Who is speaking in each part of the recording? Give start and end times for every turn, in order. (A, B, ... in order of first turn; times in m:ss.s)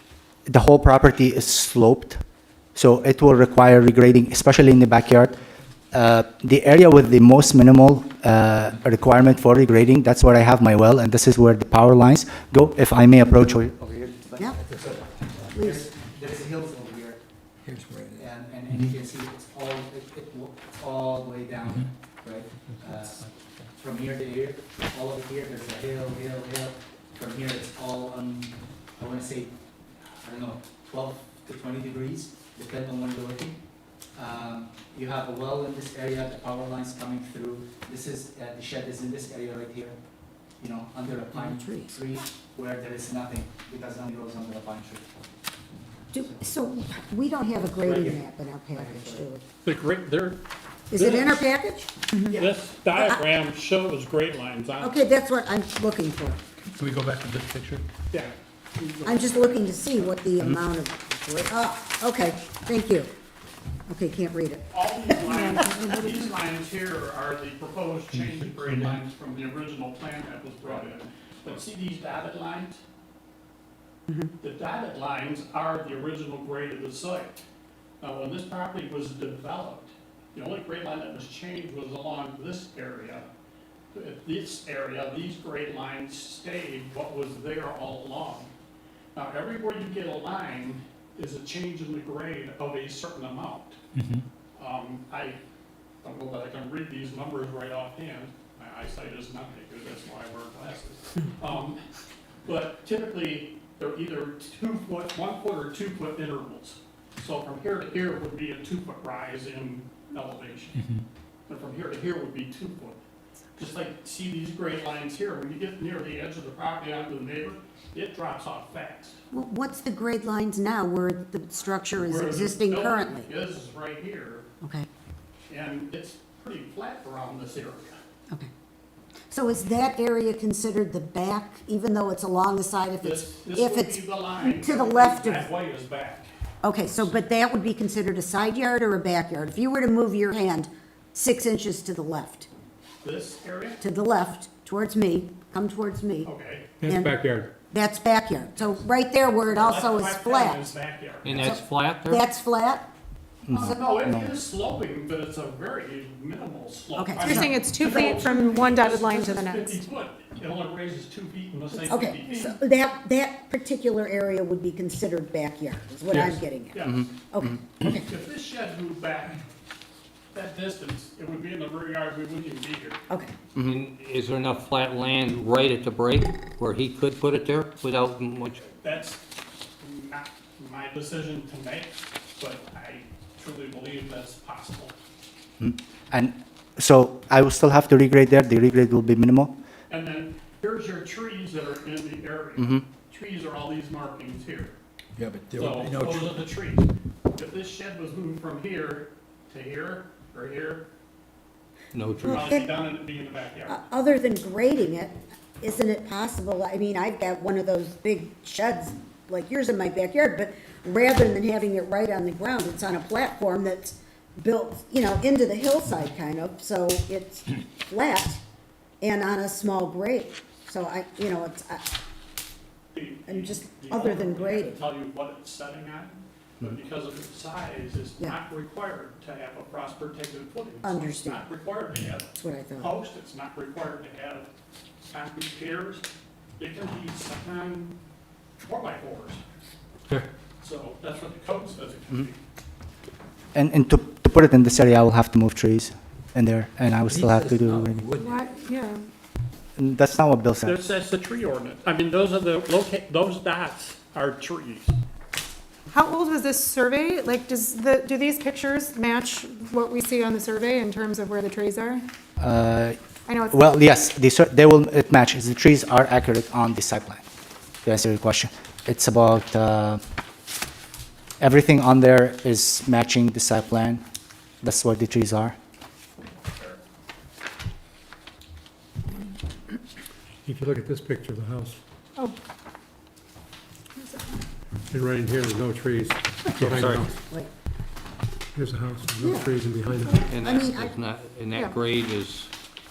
0:00.5-0:02.2 A
0:02.8-0:05.3 A
0:05.9-0:14.5 A
0:15.5-0:15.8 B
0:15.5-0:17.2 A
0:17.6-0:18.2 C
0:18.1-0:23.2 A
0:23.8-0:29.6 A
0:30.1-0:33.6 A
0:34.2-0:40.0 A
0:40.6-0:45.0 A
0:41.3-0:41.9 B
0:46.1-0:49.4 B
0:47.8-0:48.1 A
0:48.8-0:49.2 A
0:49.6-0:50.4 D
0:50.9-0:53.2 B
0:50.9-0:51.4 D
0:52.3-0:55.0 D
0:54.8-0:56.4 B
0:56.9-0:57.8 C
0:58.8-1:00.0 D
0:59.0-1:03.1 B
1:03.9-1:05.8 B
1:04.7-1:12.8 D
1:14.4-1:17.4 D
1:18.0-1:23.2 D
1:23.9-1:28.5 D
1:29.1-1:33.8 D
1:34.6-1:35.4 D
1:36.0-1:41.8 D
1:42.4-1:50.9 D
1:51.5-1:53.0 D
1:53.6-1:59.2 D
1:59.3-2:03.3 B
2:02.0-2:04.4 D
2:04.6-2:04.9 B
2:05.5-2:08.0 D
2:09.3-2:15.5 B
2:13.0-2:16.3 D
2:16.6-2:22.5 B
2:23.0-2:23.8 D
2:23.8-2:26.3 B
2:26.2-2:26.7 D
2:26.8-2:27.5 E
2:26.8-2:27.1 B
2:27.7-2:30.7 B
2:29.5-2:31.6 D
2:31.2-2:32.2 F
2:31.4-2:32.9 B
2:33.4-2:34.3 A
2:33.5-2:42.6 D
2:33.5-2:33.8 B
2:36.9-2:37.5 B
2:37.2-2:39.7 G
2:41.8-2:48.0 B
2:46.1-2:47.0 D
2:47.8-2:49.4 D
2:50.3-2:53.0 D
2:53.6-2:58.6 F
2:58.8-2:59.2 D
2:59.8-3:04.9 D
3:05.6-3:09.5 A
3:09.9-3:14.7 D
3:12.6-3:12.8 A
3:15.2-3:16.5 C
3:15.5-3:20.9 D
3:21.9-3:22.4 F
3:22.2-3:23.8 D
3:22.4-3:22.7 B
3:23.7-3:38.4 B
3:39.0-3:41.8 B
3:42.9-3:54.5 D
3:43.3-3:44.8 B
3:50.8-3:51.5 B
3:52.4-3:53.0 B
3:55.1-3:56.0 D
3:56.6-3:57.9 D
3:58.6-3:59.4 D
4:00.6-4:02.4 D
4:03.5-4:08.0 A
4:07.0-4:08.4 C
4:08.2-4:09.0 G
4:09.8-4:10.8 A
4:10.6-4:15.0 D
4:15.9-4:22.0 G
4:22.4-4:23.0 A
4:23.3-4:23.6 G
4:23.5-4:27.2 A
4:27.8-4:30.0 A
4:31.4-4:34.0 A
4:34.6-4:35.6 A
4:40.4-4:41.8 E
4:44.9-4:47.1 E
4:46.6-4:47.0 F
4:48.6-4:50.2 E
4:49.2-4:51.0 B
4:50.3-4:52.5 F